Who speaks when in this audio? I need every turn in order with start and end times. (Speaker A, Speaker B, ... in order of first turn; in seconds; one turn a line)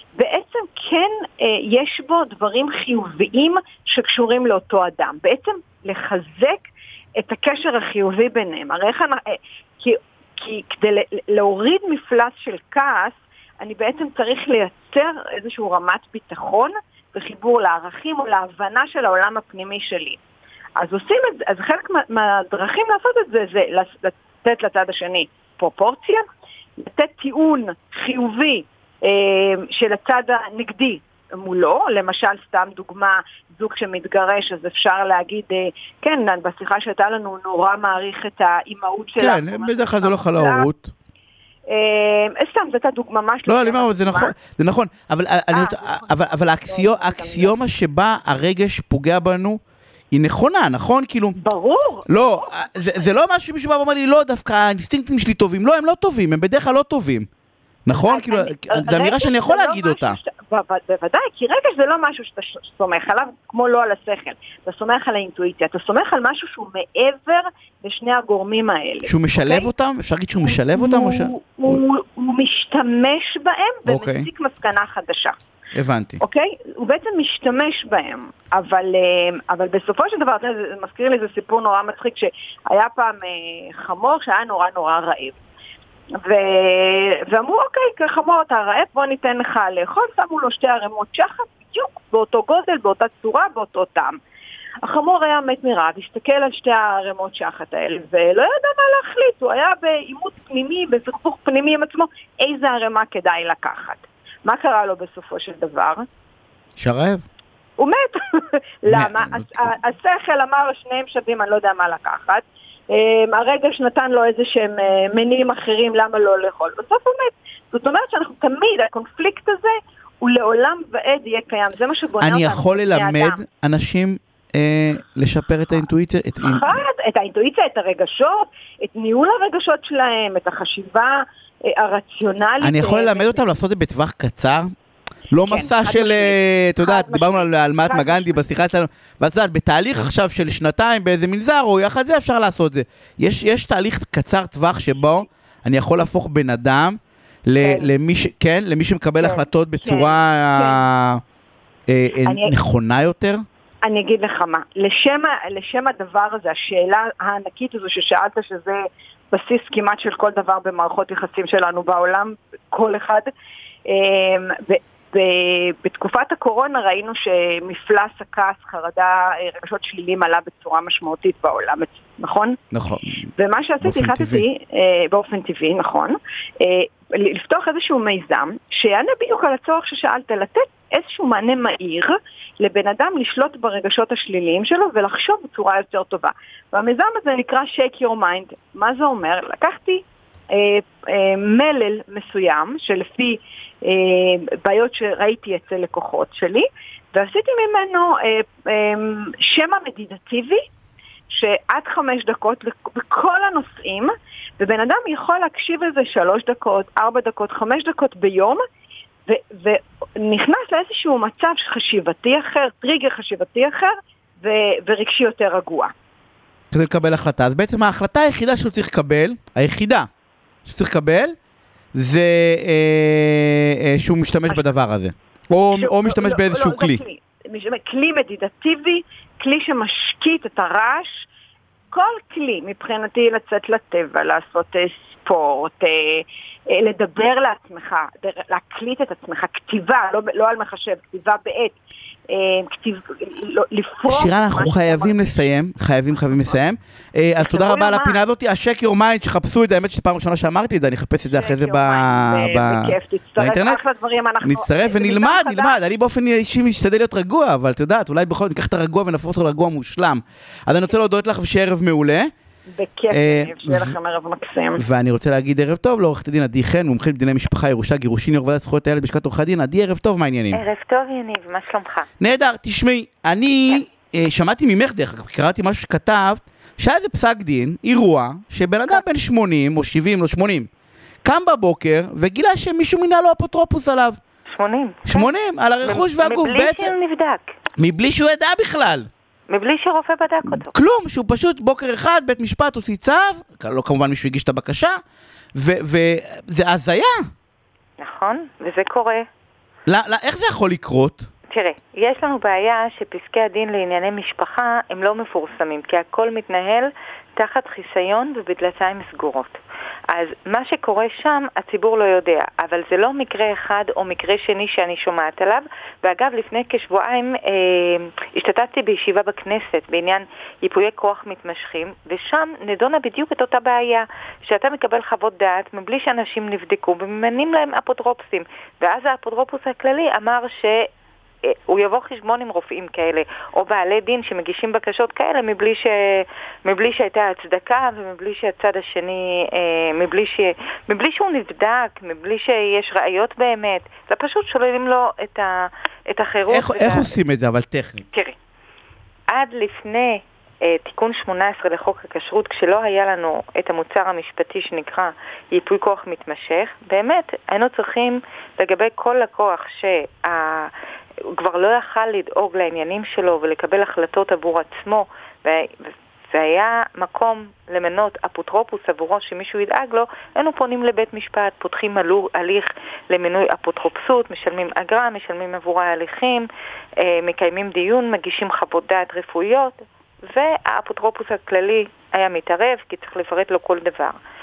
Speaker A: 0.1-6.7
Speaker A: 7.2-20.2
Speaker A: 20.8-26.2
Speaker A: 26.8-40.7
Speaker B: 39.2-40.9
Speaker A: 41.7-44.4
Speaker B: 43.5-51.3
Speaker A: 45.5-47.5
Speaker A: 51.4-53.0
Speaker B: 52.1-57.3
Speaker B: 57.9-60.2
Speaker A: 57.9-69.7
Speaker B: 69.0-71.8
Speaker A: 70.4-75.3
Speaker B: 73.8-74.3
Speaker B: 75.7-76.2
Speaker A: 76.2-85.3
Speaker A: 86.2-94.2
Speaker A: 94.8-106.0
Speaker B: 106.8-107.2
Speaker A: 107.8-123.4
Speaker B: 108.9-109.7
Speaker B: 122.2-126.8
Speaker A: 126.4-133.4
Speaker B: 132.6-134.7
Speaker B: 135.3-151.2
Speaker A: 135.4-138.5
Speaker A: 147.6-147.9
Speaker A: 149.2-150.8
Speaker B: 151.9-153.4
Speaker A: 152.2-152.5
Speaker A: 153.8-158.8
Speaker A: 159.3-163.3
Speaker A: 163.9-172.6
Speaker B: 172.7-173.3
Speaker A: 173.4-200.6
Speaker B: 173.8-174.4
Speaker A: 201.3-208.6
Speaker A: 209.3-215.9
Speaker B: 216.7-220.1
Speaker B: 220.6-221.3
Speaker B: 221.9-227.0
Speaker A: 225.7-231.3
Speaker A: 231.9-241.8
Speaker A: 242.3-245.3
Speaker B: 244.1-253.8
Speaker A: 247.4-248.2
Speaker A: 251.3-255.8
Speaker B: 254.4-262.3
Speaker A: 262.7-264.8
Speaker B: 263.1-263.9
Speaker B: 264.8-270.6
Speaker C: 270.5-272.1
Speaker B: 272.2-280.7
Speaker B: 281.2-284.2
Speaker C: 284.5-285.3
Speaker B: 285.1-286.9
Speaker C: 285.8-287.5
Speaker B: 287.8-289.1
Speaker C: 289.5-290.7
Speaker B: 290.4-294.9
Speaker B: 295.5-297.3
Speaker C: 298.0-299.3
Speaker B: 299.9-301.3
Speaker C: 301.5-309.6
Speaker C: 310.1-330.9
Speaker C: 331.5-347.1
Speaker B: 346.5-348.1
Speaker C: 349.3-360.7
Speaker C: 361.4-376.5
Speaker C: 377.0-384.2